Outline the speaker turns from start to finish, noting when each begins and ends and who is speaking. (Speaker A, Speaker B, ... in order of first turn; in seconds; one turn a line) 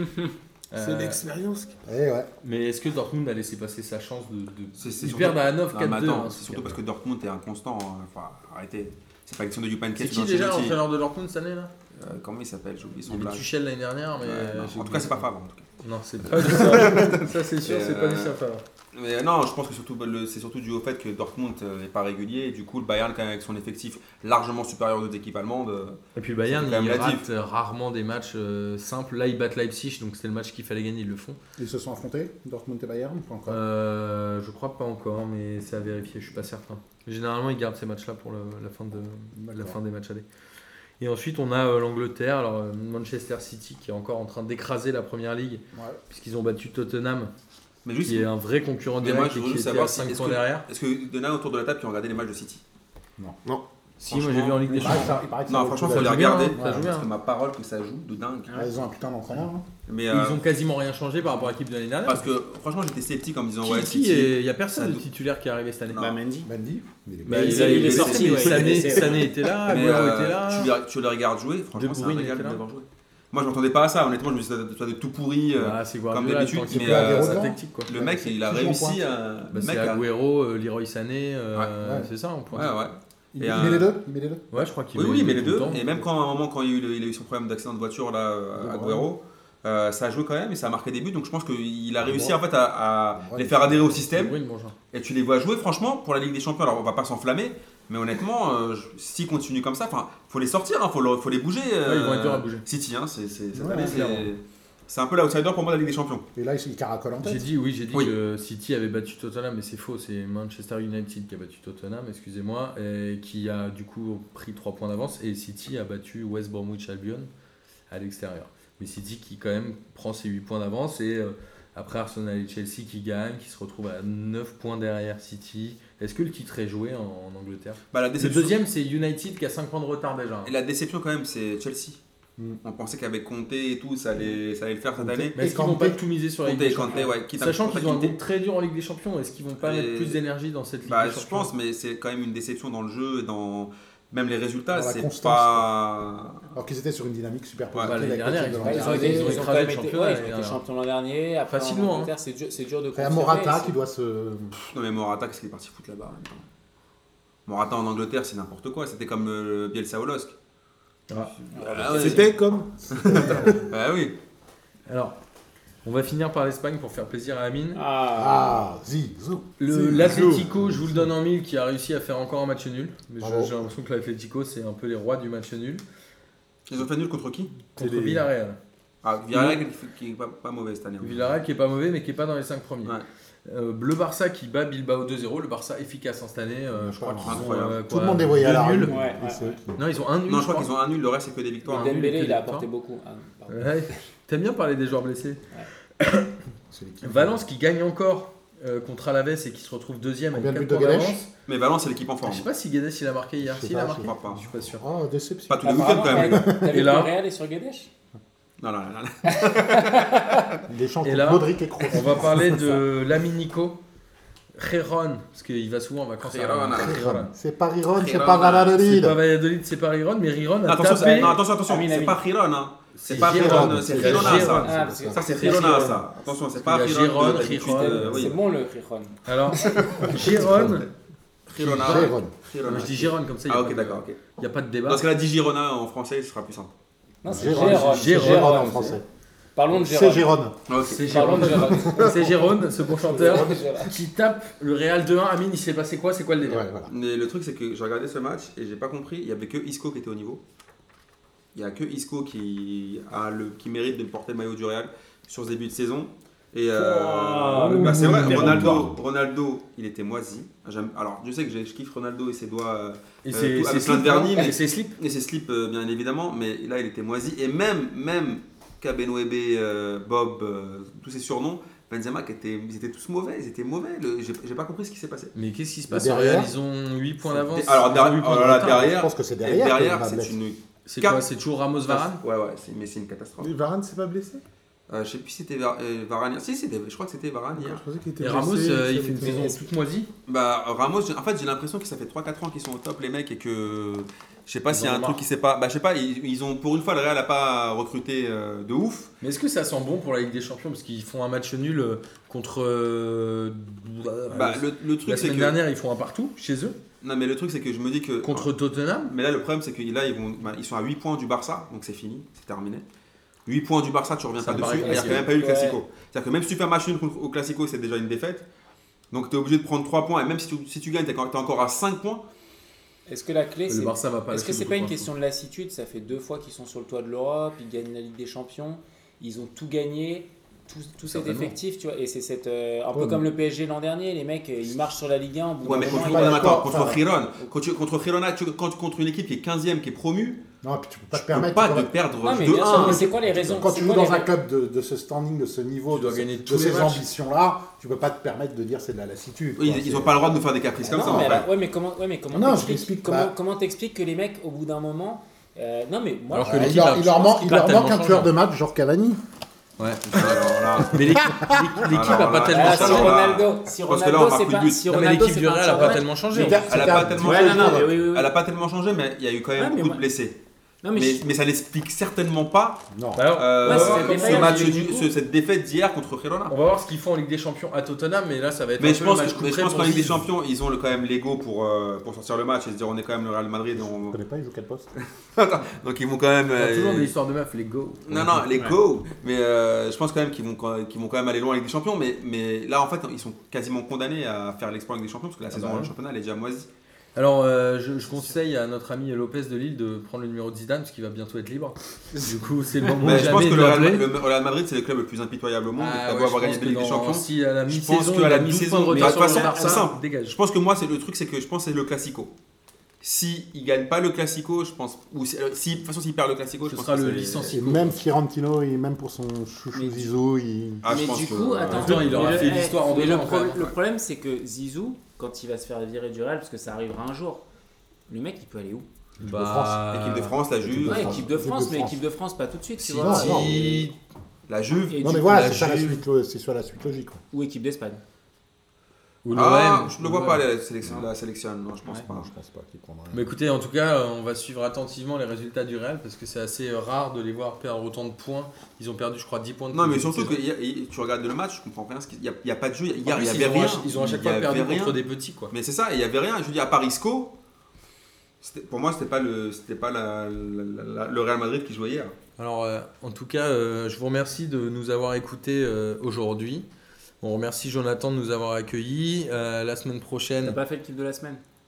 Speaker A: 0.7-1.2
Speaker B: 0.8-1.8
Speaker C: 1.8-2.3
Speaker A: 2.4-6.8
Speaker D: 4.8-10.8
Speaker A: 9.9-11.7
Speaker D: 12.0-13.5
Speaker A: 13.1-15.2
Speaker D: 14.2-15.7
Speaker A: 15.8-18.6
Speaker D: 16.3-18.4
Speaker D: 18.9-27.3
Speaker A: 26.1-31.4
Speaker C: 31.6-33.6
Speaker A: 33.5-40.2
Speaker C: 39.3-39.8
Speaker A: 41.0-47.3
Speaker C: 45.7-46.0
Speaker D: 47.8-48.3
Speaker A: 48.0-50.6
Speaker D: 49.0-52.6
Speaker A: 54.0-57.1
Speaker D: 54.0-58.5
Speaker C: 54.7-57.0
Speaker E: 58.5-58.7
Speaker C: 58.5-59.6
Speaker D: 59.9-60.4
Speaker A: 60.1-62.3
Speaker D: 62.0-65.0
Speaker A: 63.6-66.0
Speaker D: 65.9-66.2
Speaker E: 66.0-66.5
Speaker C: 66.5-68.1
Speaker E: 67.2-69.3
Speaker A: 67.3-70.7
Speaker D: 67.6-80.0
Speaker A: 71.8-72.6
Speaker A: 75.6-77.9
Speaker C: 76.7-79.0
Speaker A: 79.5-82.7
Speaker C: 81.8-82.1
Speaker D: 82.5-83.9
Speaker C: 83.3-84.7
Speaker A: 84.5-85.8
Speaker D: 84.9-94.3
Speaker C: 85.3-86.1
Speaker C: 88.6-89.1
Speaker C: 92.0-92.4
Speaker C: 93.1-94.0
Speaker A: 94.0-94.7
Speaker D: 94.9-106.3
Speaker A: 101.8-102.6
Speaker C: 103.5-104.3
Speaker A: 103.7-104.2
Speaker C: 106.3-107.5
Speaker A: 107.2-117.3
Speaker A: 117.9-130.5
Speaker D: 127.9-128.6
Speaker D: 130.4-132.0
Speaker D: 132.6-135.3
Speaker C: 135.0-136.0
Speaker A: 135.3-141.5
Speaker D: 136.4-138.2
Speaker D: 139.6-140.2
Speaker D: 140.9-146.4
Speaker C: 144.7-145.7
Speaker C: 146.5-149.5
Speaker D: 147.7-148.0
Speaker A: 147.8-150.6
Speaker E: 148.6-153.8
Speaker A: 151.5-152.1
Speaker C: 152.9-154.6
Speaker D: 154.6-156.4
Speaker D: 157.4-160.3
Speaker D: 161.5-162.3
Speaker E: 161.6-162.3
Speaker B: 161.8-163.4
Speaker C: 162.9-163.7
Speaker D: 162.9-164.2
Speaker A: 164.9-165.2
Speaker A: 165.8-167.8
Speaker E: 167.7-168.7
Speaker C: 168.1-171.1
Speaker A: 169.6-175.8
Speaker B: 169.9-170.5
Speaker C: 173.2-173.6
Speaker D: 176.7-177.6
Speaker A: 177.7-178.6
Speaker B: 177.8-178.3
Speaker D: 179.0-181.3
Speaker A: 179.3-179.6
Speaker A: 181.0-188.9
Speaker C: 186.8-189.8
Speaker D: 187.2-187.8
Speaker E: 188.9-189.6
Speaker A: 189.8-190.7
Speaker D: 190.3-191.9
Speaker A: 191.7-192.7
Speaker E: 191.7-193.7
Speaker A: 193.5-195.4
Speaker A: 196.0-196.3
Speaker C: 196.7-197.4
Speaker A: 197.0-201.2
Speaker C: 200.3-201.3
Speaker D: 201.5-202.5
Speaker A: 202.2-204.8
Speaker C: 203.4-206.7
Speaker D: 204.0-204.4
Speaker D: 205.5-206.5
Speaker E: 205.6-207.9
Speaker A: 206.7-207.1
Speaker D: 208.6-210.5
Speaker E: 209.3-210.3
Speaker C: 210.7-212.8
Speaker A: 211.0-213.8
Speaker A: 214.6-217.3
Speaker D: 216.2-217.0
Speaker C: 216.7-219.2
Speaker D: 217.9-218.8
Speaker A: 218.8-221.4
Speaker D: 220.7-228.4
Speaker E: 221.1-222.2
Speaker A: 222.9-226.0
Speaker C: 223.1-225.2
Speaker E: 223.9-226.0
Speaker A: 226.6-228.3
Speaker E: 227.6-230.1
Speaker A: 229.3-230.9
Speaker D: 229.6-230.9
Speaker C: 230.2-230.8
Speaker D: 231.5-234.2
Speaker A: 231.6-235.1
Speaker C: 231.7-232.3
Speaker D: 234.9-236.7
Speaker E: 237.2-239.0
Speaker C: 237.3-239.0
Speaker A: 237.3-239.0
Speaker E: 239.6-240.3
Speaker C: 239.7-240.6
Speaker D: 240.7-241.7
Speaker A: 240.8-246.7
Speaker E: 241.1-243.9
Speaker C: 241.7-242.3
Speaker C: 246.4-246.9
Speaker D: 246.9-250.4
Speaker D: 251.5-275.3
Speaker A: 256.7-258.8
Speaker C: 257.6-259.0
Speaker A: 263.2-264.9
Speaker A: 275.3-278.9
Speaker C: 275.9-276.5
Speaker D: 277.3-281.3
Speaker C: 278.6-280.4
Speaker A: 280.9-282.2
Speaker D: 281.8-283.5
Speaker B: 283.4-284.4
Speaker D: 284.9-287.8
Speaker B: 287.6-289.7
Speaker A: 288.2-290.1
Speaker D: 290.3-299.1
Speaker A: 294.7-295.2
Speaker A: 299.2-306.8
Speaker D: 304.3-305.6
Speaker D: 307.0-308.5
Speaker A: 308.2-309.1
Speaker D: 309.1-312.8
Speaker D: 313.4-318.4
Speaker A: 314.4-315.3
Speaker E: 314.5-315.8
Speaker D: 319.1-322.2
Speaker E: 323.1-336.7
Speaker A: 323.7-325.1
Speaker A: 331.1-331.6
Speaker C: 332.9-333.2
Speaker D: 335.6-340.4
Speaker C: 335.7-337.1
Speaker C: 340.6-350.3
Speaker D: 341.1-343.1
Speaker E: 342.2-344.3
Speaker A: 342.8-343.1
Speaker A: 345.9-347.0
Speaker D: 349.6-351.5
Speaker E: 350.8-356.8
Speaker C: 350.9-351.5
Speaker C: 352.3-353.3
Speaker A: 356.3-358.3
Speaker C: 356.4-359.2
Speaker A: 359.8-363.3
Speaker D: 360.1-364.8
Speaker E: 362.5-368.3
Speaker A: 364.9-366.7
Speaker C: 366.3-367.9
Speaker D: 366.6-370.4
Speaker E: 369.6-370.0
Speaker E: 370.8-371.2
Speaker D: 370.9-376.5
Speaker C: 372.9-373.3
Speaker A: 373.1-374.8
Speaker E: 373.6-375.1
Speaker A: 376.5-380.3
Speaker D: 378.8-384.2
Speaker C: 383.7-384.9
Speaker D: 384.9-387.1
Speaker A: 386.6-388.4
Speaker D: 388.1-396.7
Speaker E: 395.6-395.9
Speaker A: 397.1-404.1
Speaker D: 403.0-412.3
Speaker A: 405.8-410.4
Speaker E: 408.9-409.9
Speaker D: 413.0-417.6
Speaker A: 416.6-418.0
Speaker C: 417.5-420.9
Speaker E: 419.7-420.1
Speaker D: 420.8-422.6
Speaker E: 420.9-427.4
Speaker A: 421.7-423.6
Speaker E: 428.1-428.9
Speaker C: 429.2-429.8
Speaker A: 429.2-430.4
Speaker D: 429.9-431.3
Speaker C: 430.6-432.0
Speaker E: 430.9-433.7
Speaker C: 432.8-433.9
Speaker A: 433.0-433.9
Speaker D: 434.5-435.0
Speaker E: 434.9-435.6
Speaker C: 435.0-437.2
Speaker A: 435.2-436.0
Speaker E: 437.3-438.0
Speaker A: 439.2-440.4
Speaker D: 439.3-442.3
Speaker E: 440.8-441.1
Speaker C: 442.1-443.3
Speaker A: 443.1-450.4
Speaker D: 449.7-455.0
Speaker A: 453.1-455.5
Speaker D: 455.5-457.3
Speaker D: 458.4-462.1
Speaker A: 462.4-466.6
Speaker A: 467.2-470.6
Speaker E: 470.4-471.4